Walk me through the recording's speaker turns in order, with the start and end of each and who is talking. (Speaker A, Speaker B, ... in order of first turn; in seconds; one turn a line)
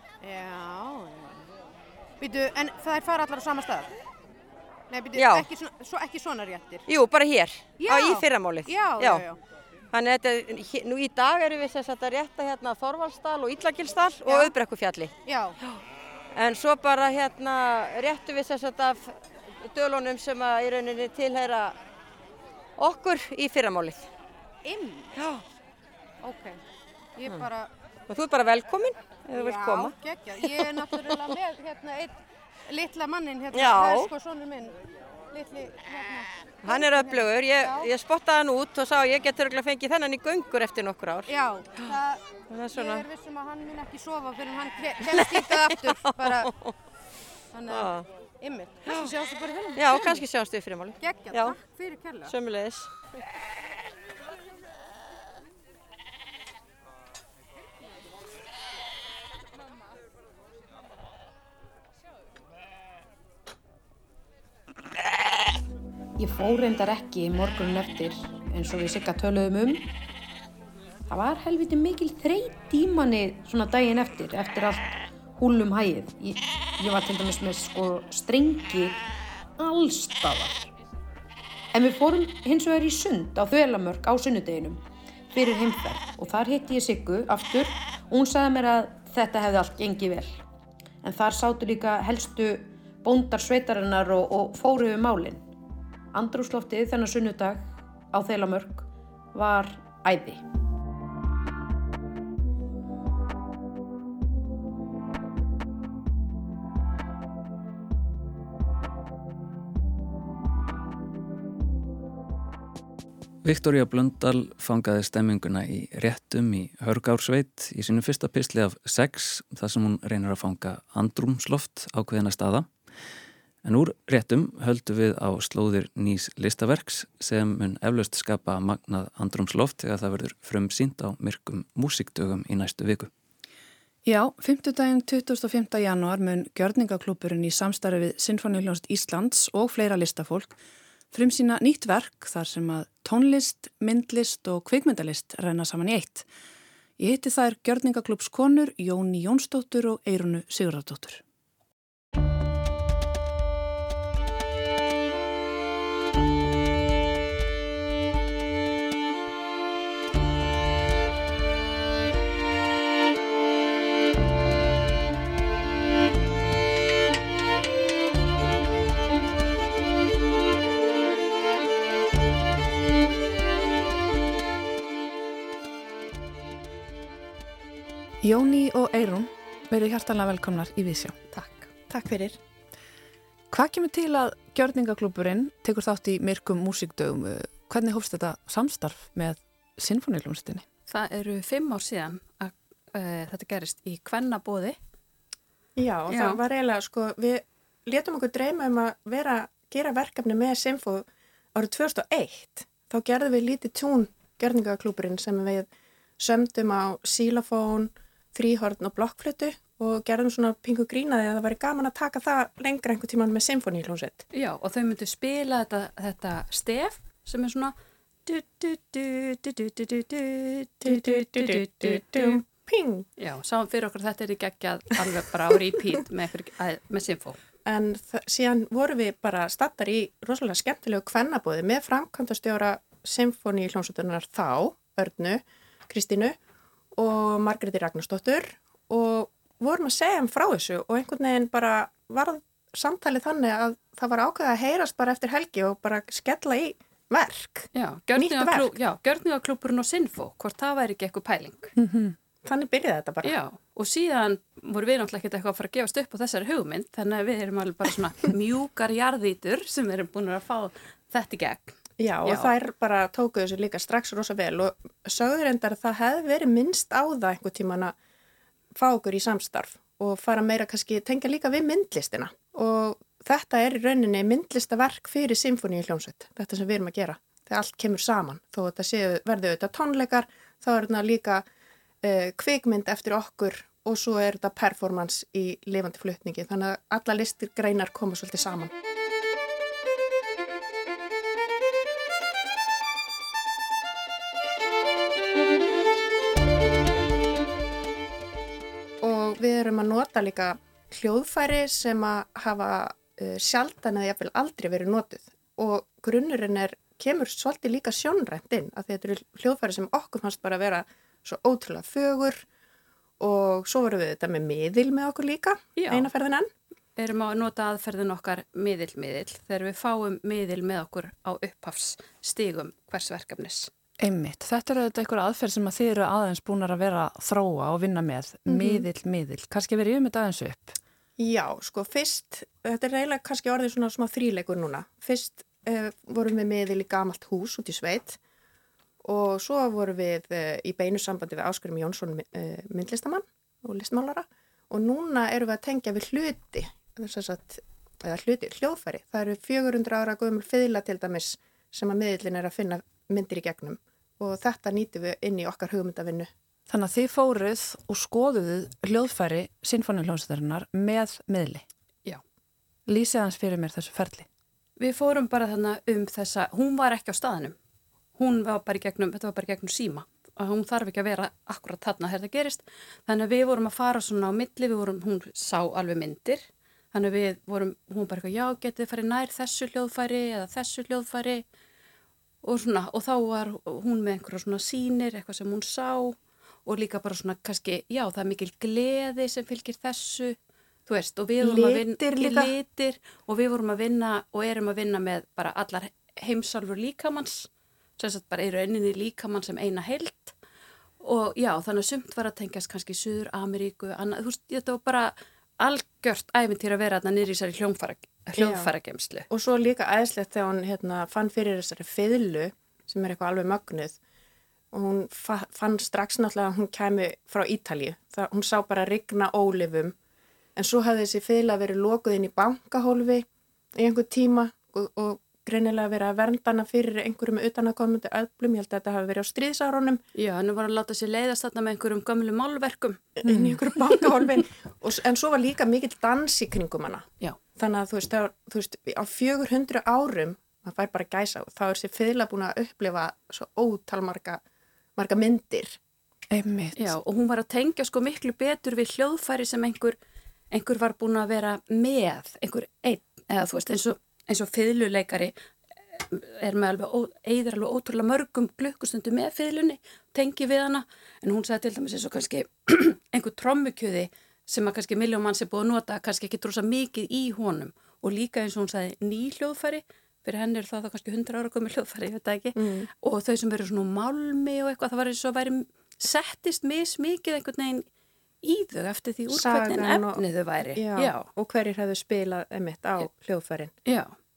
Speaker A: 0.2-1.4
Speaker A: 2.2-3.9
Speaker A: 4.9-6.8
Speaker B: 5.2-5.5
Speaker B: 6.9-9.2
Speaker A: 7.8-9.4
Speaker B: 9.9-15.1
Speaker A: 14.3-14.5
Speaker A: 15.2-15.6
Speaker B: 16.4-21.8
Speaker B: 22.8-24.1
Speaker A: 24.6-25.2
Speaker B: 25.2-25.4
Speaker A: 26.2-26.6
Speaker A: 27.2-27.7
Speaker B: 28.1-31.3
Speaker A: 29.4-34.8
Speaker B: 33.5-34.1
Speaker A: 35.3-37.9
Speaker B: 36.6-41.9
Speaker A: 41.3-42.2
Speaker B: 42.5-43.0
Speaker A: 42.7-46.5
Speaker B: 45.0-46.7
Speaker A: 47.5-50.2
Speaker B: 47.7-48.1
Speaker B: 49.8-51.6
Speaker A: 51.0-52.3
Speaker B: 52.3-52.9
Speaker C: 66.2-69.9
Speaker C: 71.1-79.0
Speaker C: 79.6-80.7
Speaker C: 81.7-90.4
Speaker C: 91.0-95.4
Speaker C: 96.1-100.4
Speaker D: 113.4-122.7
Speaker D: 123.6-133.1
Speaker E: 134.1-140.6
Speaker E: 141.1-146.3
Speaker E: 147.0-151.2
Speaker E: 178.2-181.2
Speaker F: 181.3-181.7
Speaker G: 181.9-182.4
Speaker E: 183.5-190.7
Speaker F: 190.9-194.8
Speaker G: 195.8-214.2
Speaker F: 196.1-196.4
Speaker F: 214.3-217.7
Speaker F: 218.3-222.4
Speaker G: 220.8-223.1
Speaker F: 223.2-227.4
Speaker G: 227.7-236.4
Speaker G: 237.0-248.8
Speaker F: 247.7-251.7
Speaker E: 251.8-252.2
Speaker G: 252.4-253.4
Speaker F: 253.2-262.5
Speaker G: 262.0-267.9
Speaker G: 268.8-281.4
Speaker G: 282.0-288.7
Speaker G: 299.0-312.4
Speaker G: 313.2-316.5
Speaker F: 315.8-316.1
Speaker F: 317.0-323.7
Speaker E: 324.0-330.8
Speaker G: 328.5-328.9
Speaker G: 331.2-338.2
Speaker G: 339.0-356.3
Speaker E: 356.7-361.6
Speaker E: 362.9-364.3
Speaker F: 364.8-367.6
Speaker F: 368.2-381.4
Speaker F: 382.4-390.4
Speaker F: 390.9-400.4
Speaker G: 391.4-392.5
Speaker F: 401.0-409.3
Speaker G: 408.4-408.7
Speaker G: 409.3-414.0
Speaker G: 414.7-419.9
Speaker G: 420.6-430.0
Speaker F: 430.1-433.0
Speaker G: 433.2-437.1
Speaker E: 433.3-433.6
Speaker G: 437.6-444.4
Speaker G: 445.0-445.8
Speaker E: 446.3-446.9
Speaker F: 446.8-450.0
Speaker F: 450.5-455.3
Speaker F: 455.9-477.9
Speaker G: 472.6-472.9
Speaker F: 478.4-481.3
Speaker G: 479.3-480.2
Speaker G: 480.8-483.7
Speaker F: 483.9-484.1